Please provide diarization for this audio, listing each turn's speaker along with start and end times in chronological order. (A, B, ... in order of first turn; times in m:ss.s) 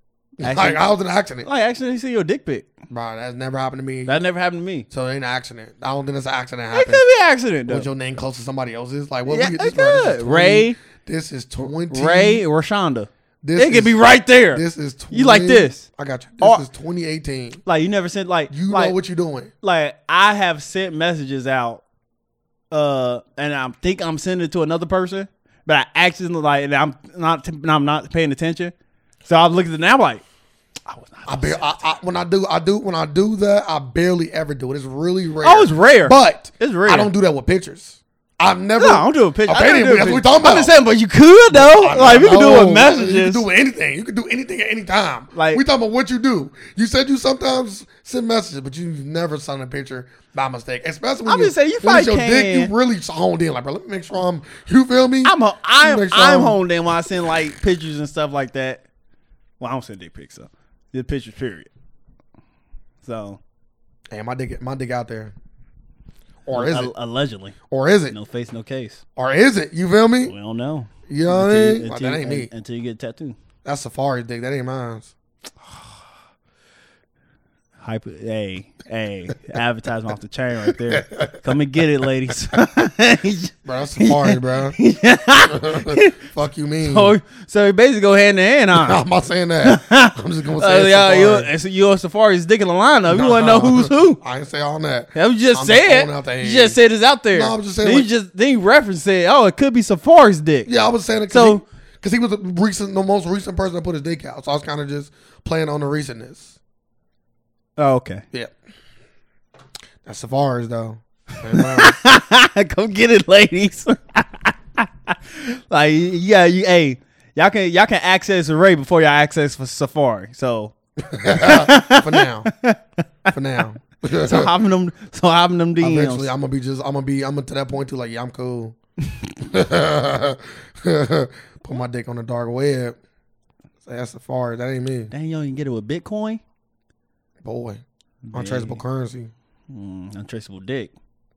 0:00.4-0:01.5 A
0:00.4-0:00.9 B
0:01.4-0:02.7 B
0:02.9-0:04.2 A
0:04.1-0:04.9 B
0:04.9-0:07.0 A
0:06.7-0:07.9 B
0:07.7-0:12.4 A
0:09.3-0:10.8 B
0:11.9-0:15.8 B
0:13.4-0:14.0 A
0:14.5-0:17.6 A
0:17.6-0:19.0 B
0:18.5-0:19.5 A
0:19.6-0:21.8 B
0:22.7-0:28.7 B
0:29.3-0:30.2 B
0:30.9-0:31.8 B
0:31.3-0:40.8 A
0:35.4-0:37.1 B
0:38.8-0:43.4 B
0:41.5-0:56.6 A
0:45.3-0:45.6 B
0:51.2-0:52.7 B
0:55.2-0:58.8 B
0:59.6-1:01.7 B
1:03.0-1:03.4 B
1:04.1-1:05.3 A
1:06.4-1:06.9 A
1:06.5-1:07.6 B
1:07.7-1:08.2 A
1:08.1-1:09.0 B
1:09.2-1:10.3 A
1:10.3-1:13.4 B
1:11.1-1:12.5 A
1:13.6-1:15.1 A
1:17.8-1:26.2 B
1:23.6-1:24.8 A
1:25.4-1:27.2 A
1:26.8-1:29.0 B
1:28.7-1:31.5 A
1:29.6-1:34.2 B
1:33.1-1:36.8 A
1:35.2-1:40.7 B
1:37.3-1:38.1 A
1:40.7-1:46.6 A
1:41.3-1:41.6 B
1:47.8-1:48.2 B
1:50.0-1:52.0 A
1:51.5-2:00.7 B
2:01.0-2:02.5 A
2:01.3-2:03.3 B
2:03.3-2:04.5 A
2:04.1-2:06.3 B
2:05.8-2:08.8 A
2:09.4-2:13.0 A
2:13.8-2:15.1 A
2:15.1-2:16.4 B
2:17.4-2:19.3 A
2:18.3-2:18.8 B
2:19.7-2:20.9 B